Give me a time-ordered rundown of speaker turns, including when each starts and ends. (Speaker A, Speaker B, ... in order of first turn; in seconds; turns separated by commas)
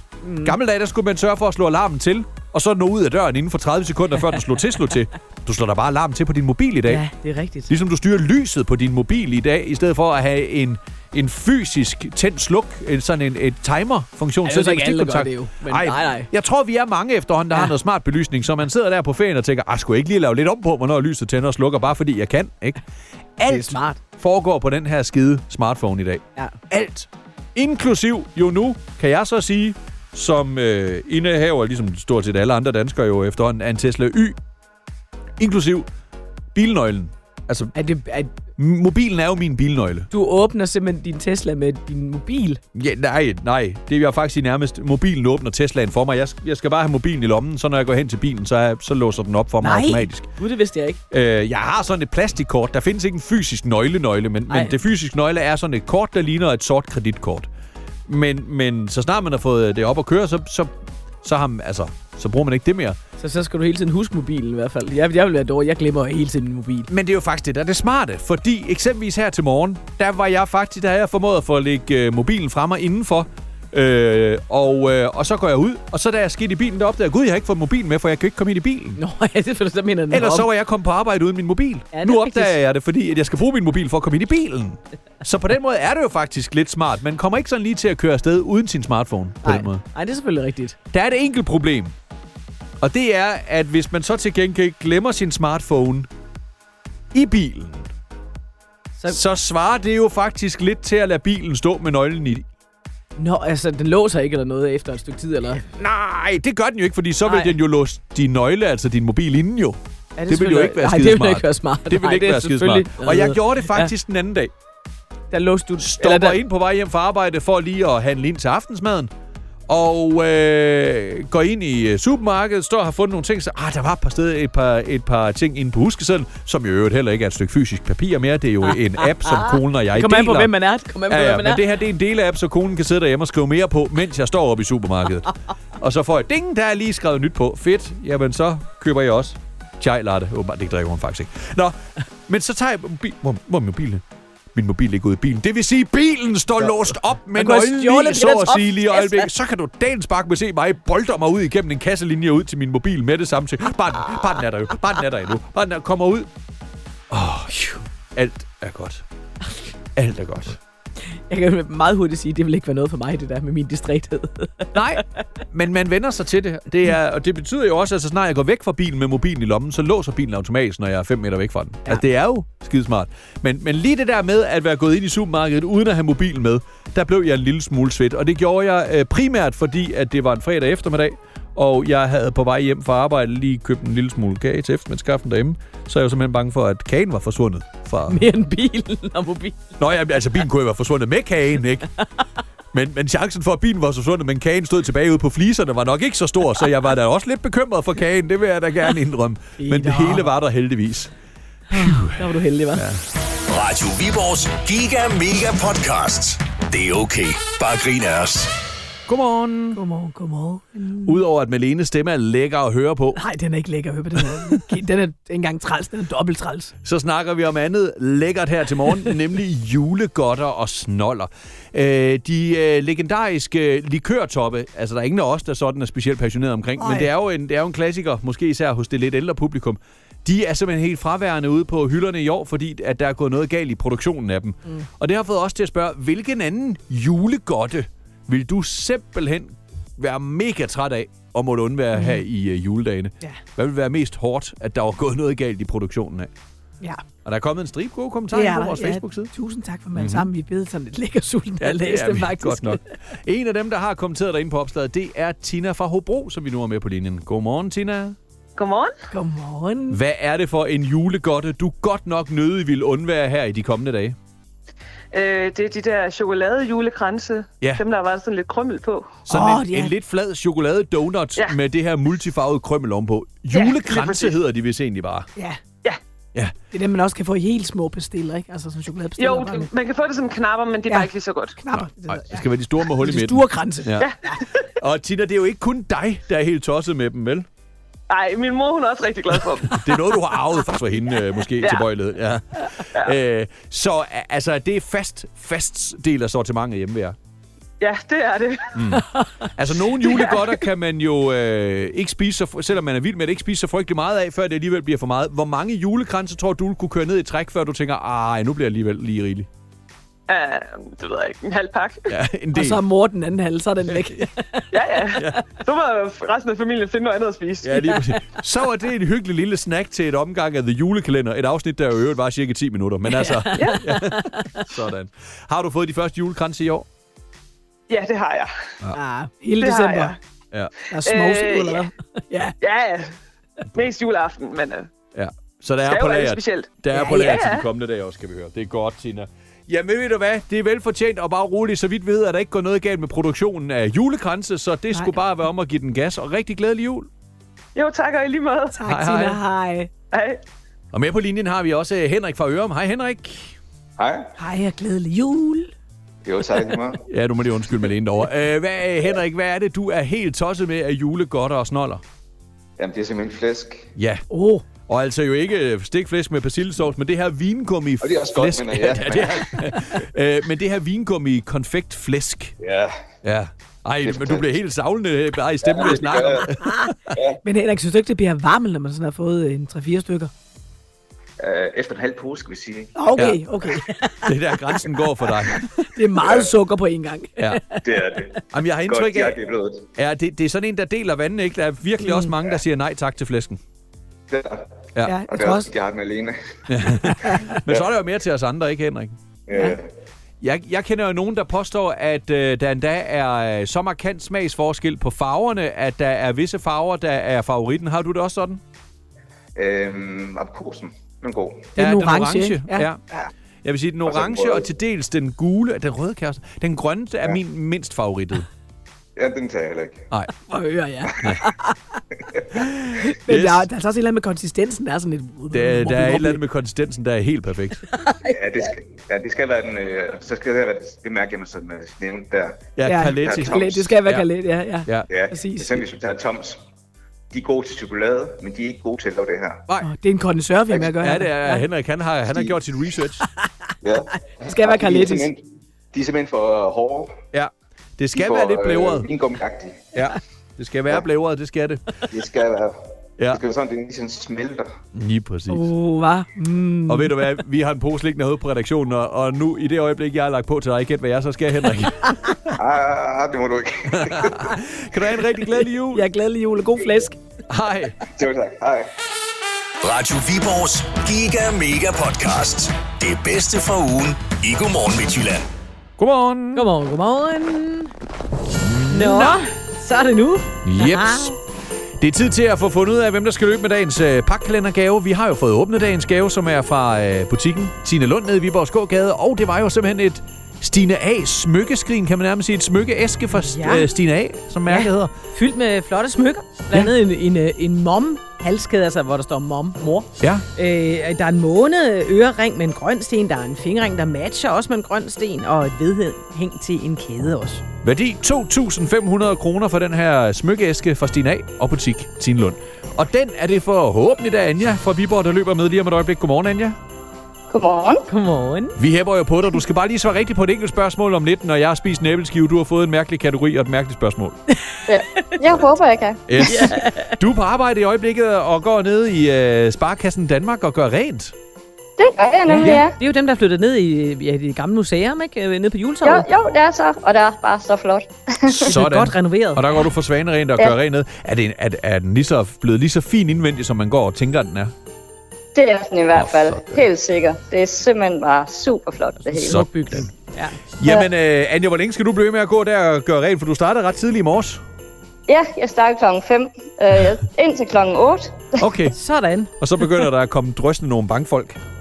Speaker A: 0.2-0.6, Speaker B: 0.4-7.0, Speaker A: 6.8-7.7, Speaker B: 7.7-22.8, Speaker A: 14.4-16.3, Speaker B: 23.4-34.4, Speaker A: 23.5-24.0, Speaker B: 35.4-35.9, Speaker B: 36.5-37.7, Speaker A: 37.7-38.3, Speaker B: 38.6-40.1, Speaker A: 40.1-42.6, Speaker B: 42.7-50.3, Speaker A: 49.6-51.0, Speaker B: 51.1-57.5, Speaker A: 54.5-54.8, Speaker B: 58.1-60.7, Speaker B: 61.2-63.0, Speaker A: 63.2-66.9, Speaker B: 66.9-79.0, Speaker A: 79.0-80.5, Speaker B: 80.1-89.8, Speaker A: 81.9-82.6, Speaker A: 89.4-90.8, Speaker B: 90.9-91.9, Speaker B: 92.8-96.1, Speaker B: 97.1-97.9, Speaker B: 99.1-102.4, Speaker A: 103.2-105.6, Speaker B: 105.6-114.5, Speaker A: 107.2-107.5, Speaker A: 110.2-113.9, Speaker A: 115.3-116.4, Speaker B: 115.8-119.1, Speaker B: 119.7-130.5, Speaker A: 128.7-131.6, Speaker B: 131.1-141.8, Speaker B: 142.3-144.0, Speaker B: 144.5-156.3, Speaker A: 146.6-149.3, Speaker B: 157.1-157.6, Speaker A: 157.5-157.8, Speaker B: 158.1-159.0, Speaker B: 159.9-160.6, Speaker A: 161.3-165.0, Speaker B: 164.7-188.3, Speaker A: 188.1-189.7, Speaker B: 189.8-191.9, Speaker B: 192.7-201.1, Speaker A: 199.6-200.3, Speaker A: 201.7-202.8, Speaker B: 201.7-203.0, Speaker C: 203.4-208.5, Speaker B: 209.1-209.8, Speaker A: 209.7-211.2, Speaker B: 211.0-213.2, Speaker A: 213.1-216.7, Speaker B: 214.2-214.6, Speaker B: 216.8-246.3, Speaker A: 226.8-227.1, Speaker A: 241.9-242.2, Speaker B: 247.2-249.3, Speaker A: 248.3-252.9, Speaker B: 249.9-250.3, Speaker B: 251.6-258.1, Speaker D: 258.6-258.9, Speaker A: 259.1-260.0, Speaker B: 259.9-264.1, Speaker D: 265.1-269.2, Speaker B: 269.3-275.3, Speaker A: 269.3-269.9, Speaker D: 273.5-274.3, Speaker A: 276.7-279.7, Speaker D: 279.2-281.6, Speaker A: 280.9-284.4, Speaker B: 281.7-284.1, Speaker B: 284.8-287.4, Speaker D: 288.1-289.8, Speaker B: 289.7-297.1, Speaker D: 291.6-291.9, Speaker D: 297.8-298.8, Speaker B: 298.7-309.5, Speaker D: 300.1-300.4, Speaker D: 310.3-312.1, Speaker B: 312.1-312.8, Speaker A: 312.5-314.7, Speaker B: 313.9-314.2, Speaker D: 314.7-318.0, Speaker B: 317.6-326.8, Speaker A: 323.1-324.6, Speaker D: 323.6-323.8, Speaker D: 327.9-328.5, Speaker A: 328.9-330.2, Speaker D: 329.6-330.2, Speaker A: 330.9-332.5, Speaker D: 331.0-331.9, Speaker D: 332.6-333.1, Speaker D: 333.7-334.9, Speaker B: 335.1-347.1, Speaker D: 335.8-337.6, Speaker A: 344.9-345.2, Speaker D: 347.7-348.8, Speaker A: 348.7-349.9, Speaker B: 348.9-349.4, Speaker D: 350.1-350.4, Speaker B: 350.9-353.5, Speaker E: 354.0-354.3, Speaker A: 354.4-355.7, Speaker E: 356.2-357.0, Speaker B: 357.1-362.0, Speaker E: 362.8-363.9, Speaker B: 363.9-364.2, Speaker A: 364.3-364.6, Speaker B: 364.9-372.5, Speaker E: 368.0-369.9, Speaker E: 372.6-372.9, Speaker B: 373.2-377.1, Speaker E: 374.0-374.5, Speaker E: 375.6-376.5, Speaker A: 376.6-376.9, Speaker E: 377.1-377.4, Speaker A: 377.4-380.3, Speaker E: 381.4-382.9, Speaker A: 382.9-385.0, Speaker B: 383.2-383.4, Speaker B: 384.2-385.9, Speaker A: 385.9-387.8, Speaker E: 386.2-386.5, Speaker B: 387.4-387.6, Speaker E: 387.8-389.9, Speaker B: 388.5-389.4, Speaker B: 389.9-393.6, Speaker A: 392.0-392.3, Speaker E: 394.3-394.7, Speaker B: 394.9-395.2, Speaker A: 395.0-395.7, Speaker E: 395.3-396.3, Speaker B: 396.7-399.1, Speaker A: 397.0-397.6, Speaker E: 397.6-397.9, Speaker E: 399.5-399.9, Speaker B: 400.4-408.6, Speaker E: 409.6-411.7, Speaker A: 411.8-413.3, Speaker B: 411.8-413.0, Speaker B: 413.6-418.5, Speaker E: 414.0-414.7, Speaker E: 419.1-420.1, Speaker A: 420.4-422.0, Speaker E: 422.3-422.6, Speaker B: 422.5-423.6, Speaker A: 423.0-426.4, Speaker B: 425.5-427.8, Speaker A: 427.9-428.7, Speaker E: 428.2-433.9, Speaker B: 432.8-434.3, Speaker A: 432.8-435.8, Speaker E: 435.1-436.6, Speaker E: 437.3-439.6, Speaker A: 439.8-441.6, Speaker B: 441.0-443.2, Speaker A: 443.2-443.5, Speaker E: 443.8-447.2, Speaker A: 444.4-445.3, Speaker B: 447.3-449.1, Speaker E: 448.1-449.9, Speaker B: 449.9-452.0, Speaker E: 452.1-454.7, Speaker B: 454.9-455.7, Speaker A: 455.5-457.2, Speaker B: 456.9-462.6, Speaker E: 462.6-464.5, Speaker B: 463.9-466.0, Speaker A: 465.5-467.2, Speaker B: 467.5-468.0, Speaker E: 468.1-468.9, Speaker C: 469.8-475.4, Speaker B: 476.0-476.7, Speaker A: 476.5-477.9, Speaker B: 478.6-479.4, Speaker A: 478.9-481.4, Speaker B: 480.6-481.4, Speaker B: 482.0-495.1, Speaker A: 493.3-493.9, Speaker A: 494.7-507.6, Speaker B: 500.2-500.4, Speaker B: 507.8-516.8, Speaker F: 517.5-518.0, Speaker A: 518.1-518.8, Speaker B: 518.8-524.4, Speaker F: 524.9-526.7, Speaker B: 526.3-531.3, Speaker A: 526.4-527.1, Speaker F: 532.0-532.9, Speaker A: 532.5-536.3, Speaker F: 536.0-538.7, Speaker B: 538.5-544.7, Speaker A: 538.6-539.6, Speaker F: 545.5-549.6, Speaker B: 546.1-546.9, Speaker A: 549.3-550.6, Speaker B: 549.4-550.1, Speaker B: 550.8-554.6, Speaker F: 555.3-558.5, Speaker B: 558.6-559.0, Speaker A: 558.9-560.0, Speaker B: 559.6-561.6